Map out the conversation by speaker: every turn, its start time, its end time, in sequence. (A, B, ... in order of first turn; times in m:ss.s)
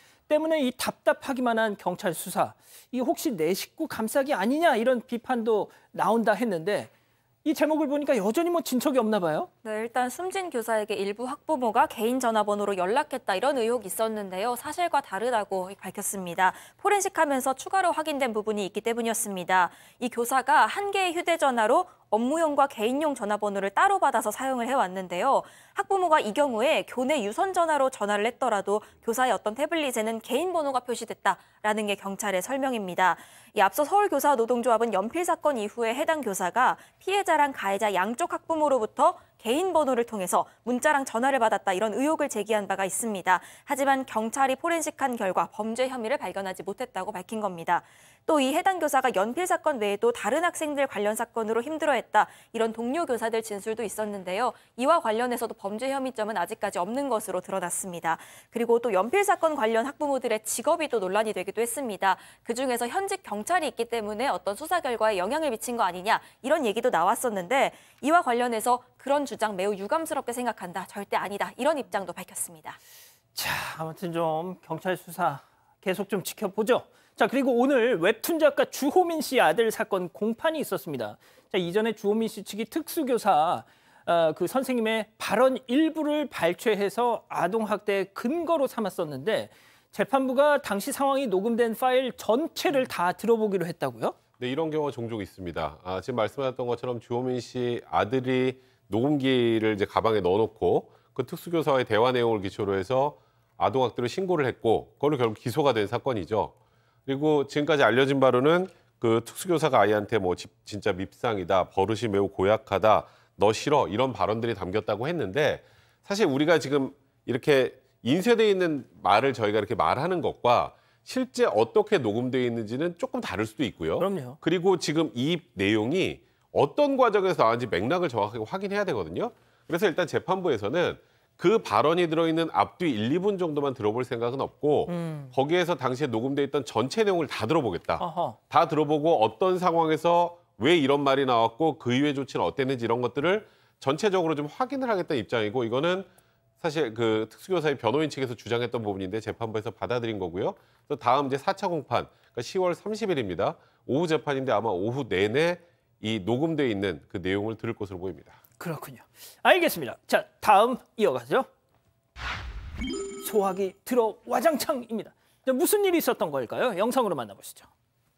0:00.3-0:06.9 A
0:07.4-0:09.5 A
0:09.6-1:12.8 B
1:13.3-1:34.2 A
1:34.4-1:46.5 C
1:47.1-2:26.1 C
2:04.0-2:04.4 A
2:14.9-2:15.3 A
2:18.0-2:18.4 A
2:26.6-2:38.4 C
2:38.6-2:41.5 A
2:43.2-2:47.7 A